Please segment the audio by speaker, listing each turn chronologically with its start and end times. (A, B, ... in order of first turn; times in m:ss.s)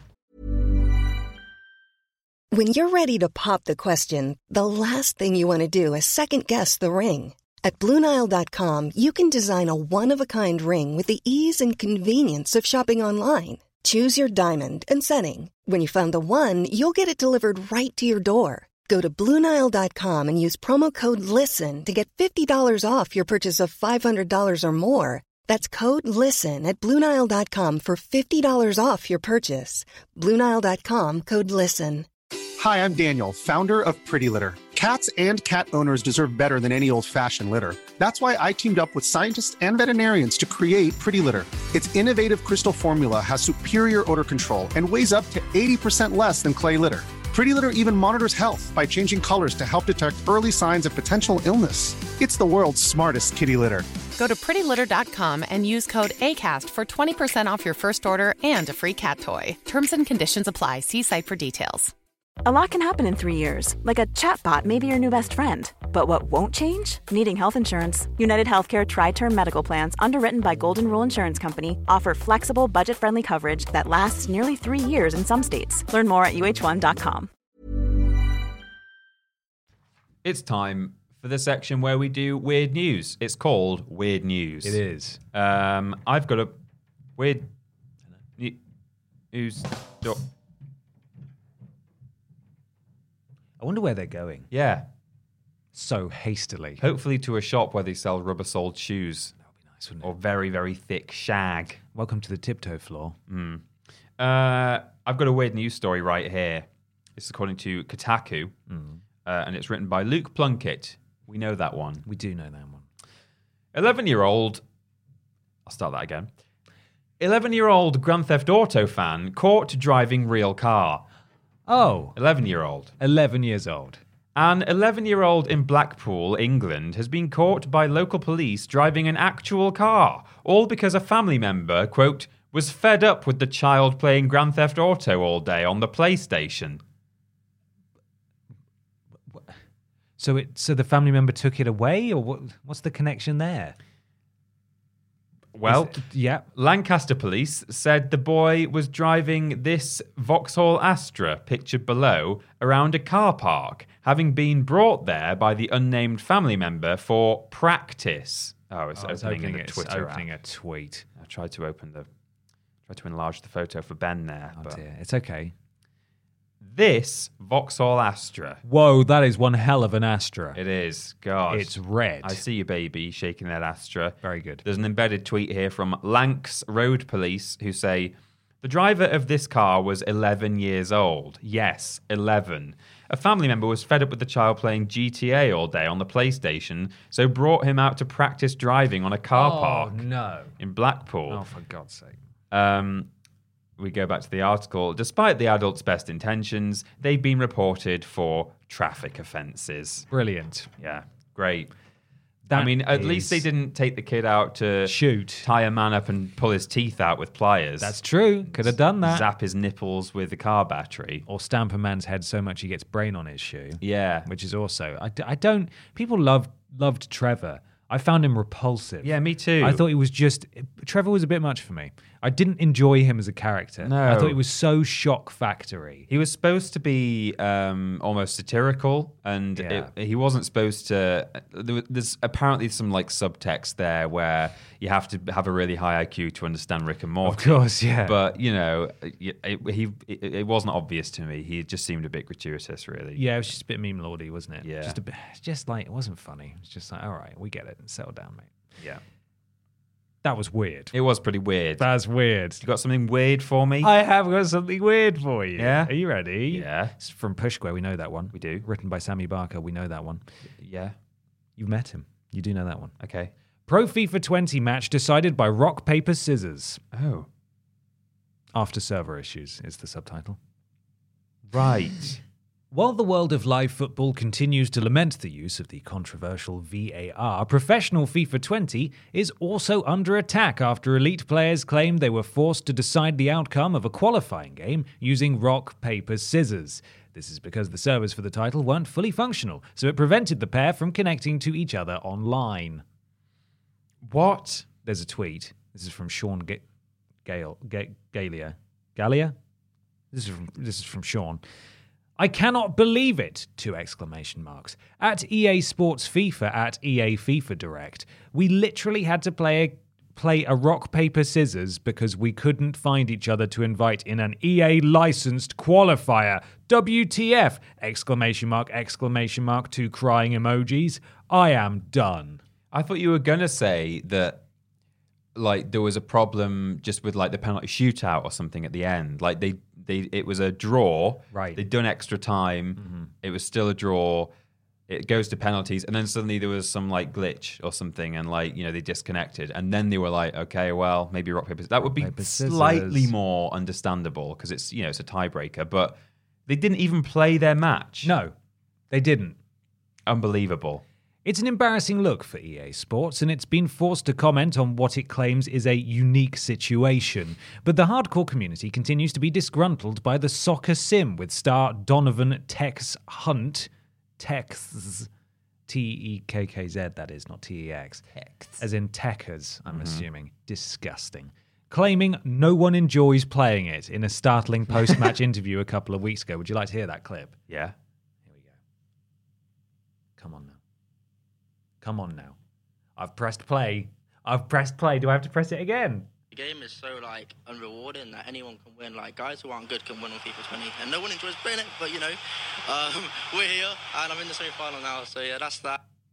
0:02.5-0:32.1 A
0:32.6-0:53.9 B
0:54.2-1:01.9 C
1:02.4-1:17.3 D
1:20.2-1:24.8 E
1:24.6-1:25.2 F
1:25.3-1:26.6 E
1:27.2-1:27.5 E
1:29.3-1:30.2 E
1:33.6-1:34.5 F
1:34.5-1:34.9 E
1:35.7-1:36.8 F
1:36.8-1:39.4 E
1:39.6-1:40.1 F
1:40.0-1:41.8 E
1:41.9-1:43.2 F
1:43.3-1:43.6 E
1:44.2-1:48.6 E
1:48.7-1:49.0 F
1:49.2-1:52.0 E
1:52.0-1:52.9 F
1:53.7-1:54.6 E
1:55.7-1:56.3 E
1:57.2-2:01.0 E
2:01.7-2:02.2 F
2:02.2-2:03.0 E
2:03.0-2:04.0 F
2:04.4-2:16.8 E
2:20.2-2:23.8 F
2:25.5-2:40.3 E
2:25.6-2:26.4 F
2:39.0-2:41.1 F
2:41.2-2:42.1 E
2:42.9-2:44.8 E
2:44.6-2:45.5 F
2:46.6-2:48.6 E
2:48.6-2:50.6 F
2:50.6-3:10.0 E
2:51.5-2:52.4 F
2:54.2-2:54.6 F
3:09.3-3:10.5 F
3:10.6-3:11.4 E
3:11.3-3:12.2 F
3:12.5-3:13.1 E
3:13.8-3:20.1 E
3:20.1-3:20.7 F
3:20.8-3:21.7 E
3:22.5-3:23.4 F
3:22.5-3:31.2 E
3:24.8-3:25.5 F
3:27.8-3:29.3 F
3:31.3-3:46.1 F
3:33.8-3:34.3 E
3:39.0-3:39.8 E
3:43.8-3:44.4 E
3:46.1-4:03.2 E
3:49.6-3:49.9 F
3:57.2-3:58.2 F
4:03.2-4:08.5 F
4:04.6-4:05.0 E
4:10.2-4:11.0 F
4:10.9-4:11.8 E
4:11.8-4:12.6 F
4:12.6-4:13.9 E
4:13.8-4:20.2 F
4:15.6-4:15.9 E
4:16.5-4:17.0 E
4:18.3-4:18.6 E
4:20.6-4:21.0 E
4:21.6-4:22.9 F
4:23.0-4:23.3 E
4:23.7-4:26.8 F
4:26.9-4:27.3 E
4:28.6-4:30.4 F
4:31.5-4:32.2 E
4:32.7-4:52.8 F
4:54.0-4:54.7 E
4:54.8-4:56.6 F
4:57.2-4:59.4 F
5:00.1-5:01.4 F
5:02.2-5:22.4 F
5:22.7-5:24.4 E
5:25.4-5:34.3 E
5:31.3-5:31.6 F
5:32.8-5:33.1 F
5:34.9-5:48.1 E
5:41.8-5:43.1 F
5:48.0-5:48.3 F
5:48.9-5:49.4 F
5:50.1-5:50.8 E
5:51.2-6:05.1 F
6:05.7-6:08.0 F
6:08.2-6:08.6 E
6:08.6-6:17.4 F
6:09.7-6:10.0 E
6:17.5-6:17.8 E
6:20.2-6:20.6 F
6:21.8-6:22.4 F
6:23.0-6:26.1 F
6:26.3-6:35.8 G